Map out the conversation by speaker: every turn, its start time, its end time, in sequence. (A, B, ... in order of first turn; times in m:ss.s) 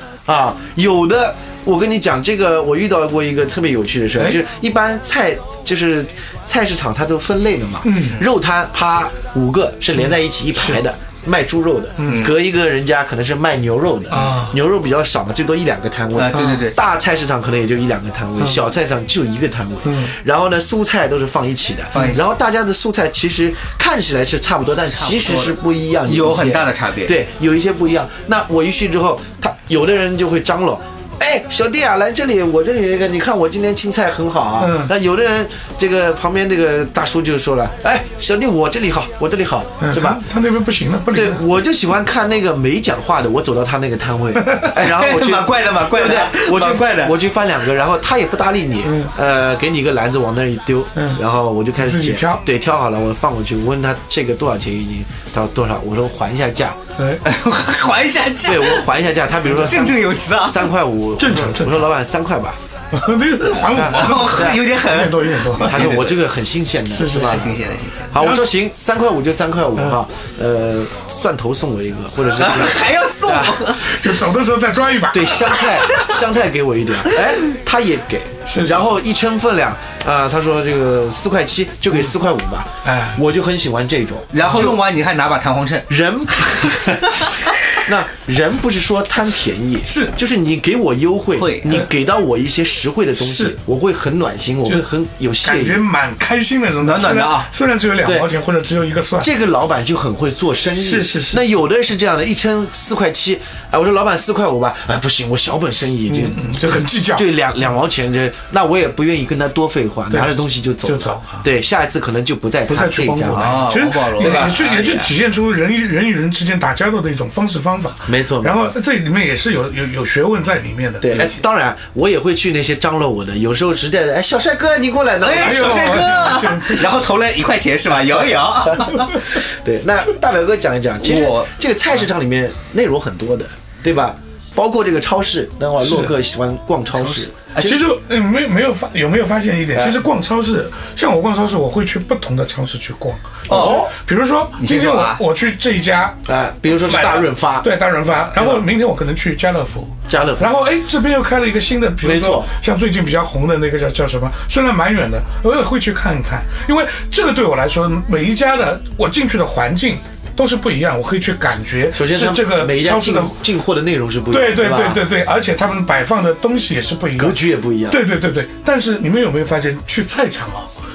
0:00.3-0:40.2 A
0:07.8-0:08.2 B
0:10.0-0:10.8 B
0:12.0-0:12.3 B
0:12.1-0:12.3 C
0:14.1-0:14.6 B
0:16.2-0:16.8 C
0:16.3-0:16.6 B
0:19.8-0:20.1 B
0:22.0-0:22.2 C
0:24.9-0:27.2 C
0:34.6-0:34.9 B
0:39.8-0:41.5 B
0:41.1-0:56.8 A
0:44.4-0:44.8 B
0:44.7-0:47.2 C
0:48.8-0:49.1 B
0:51.0-0:51.2 B
0:51.8-0:52.4 B
0:57.0-0:57.2 B
0:57.2-0:58.9 C
0:58.4-1:02.6 A
0:59.4-1:00.7 C
1:01.2-1:01.9 B
1:02.9-1:06.1 B
1:03.6-1:04.6 A
1:03.8-1:06.2 C
1:05.6-1:07.6 A
1:06.9-1:08.5 B
1:07.1-1:08.1 C
1:08.1-1:13.7 A
1:12.4-1:14.1 C
1:13.8-1:15.7 B
1:15.1-1:24.7 A
1:15.6-1:16.2 C
1:18.5-1:19.0 B
1:22.8-1:23.2 B
1:24.3-1:25.9 C
1:25.9-1:35.8 A
1:31.4-1:31.8 C
1:33.2-1:33.6 B
1:35.4-1:39.3 B
1:36.8-1:37.5 C
1:38.0-1:38.3 A
1:39.2-1:54.6 A
1:40.7-1:41.5 B
1:46.1-1:47.3 B
1:50.1-1:51.5 B
1:52.7-2:01.3 B
1:53.3-1:55.1 C
1:58.1-1:58.7 A
2:01.0-2:06.5 A
2:05.2-2:09.2 C
2:05.4-2:07.0 B
2:08.6-2:17.3 A
2:11.0-2:11.5 C
2:15.8-2:16.1 B
2:17.0-2:17.9 C
2:17.6-2:43.4 B
2:19.7-2:20.0 A
2:23.5-2:23.9 A
2:23.5-2:23.8 C
2:24.6-2:25.2 C
2:26.3-2:27.7 A
2:28.3-2:28.6 A
2:30.1-2:30.6 A
2:32.0-2:32.5 A
2:41.9-2:45.0 A
2:44.3-2:50.7 B
2:47.2-2:48.0 A